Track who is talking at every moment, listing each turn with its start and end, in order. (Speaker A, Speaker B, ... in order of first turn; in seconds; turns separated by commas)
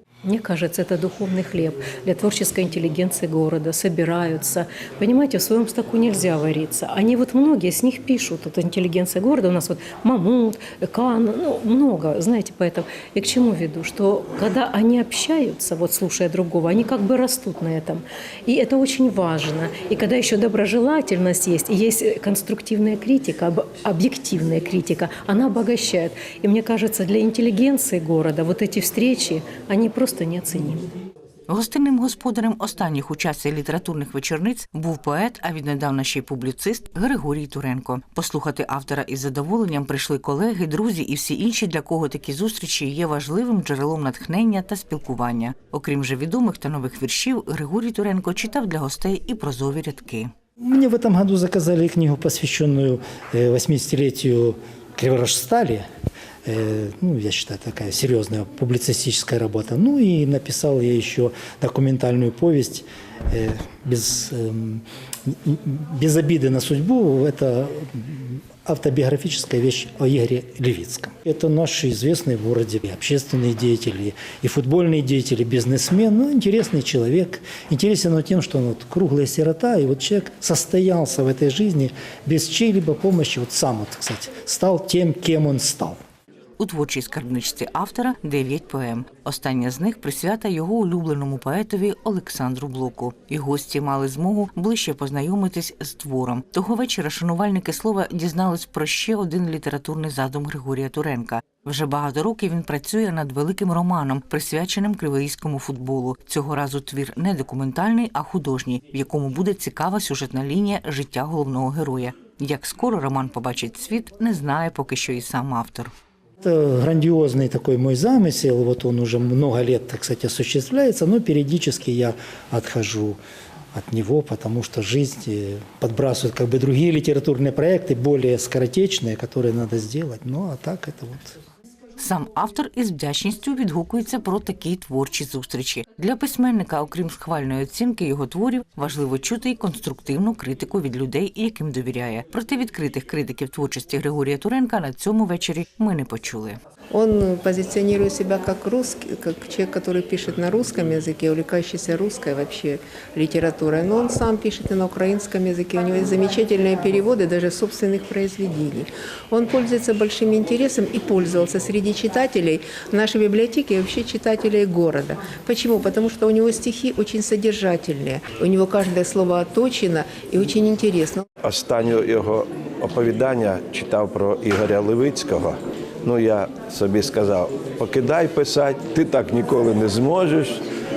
Speaker A: 0.2-30.8, Speaker B: 31.5-50.3, Speaker C: 50.6-55.8, Speaker C: 56.5-86.0, Speaker B: 86.6-115.9, Speaker C: 116.4-123.2, Speaker C: 123.7-131.4, Speaker B: 132.0-146.6, Speaker D: 146.9-171.2, Speaker E: 171.4-180.6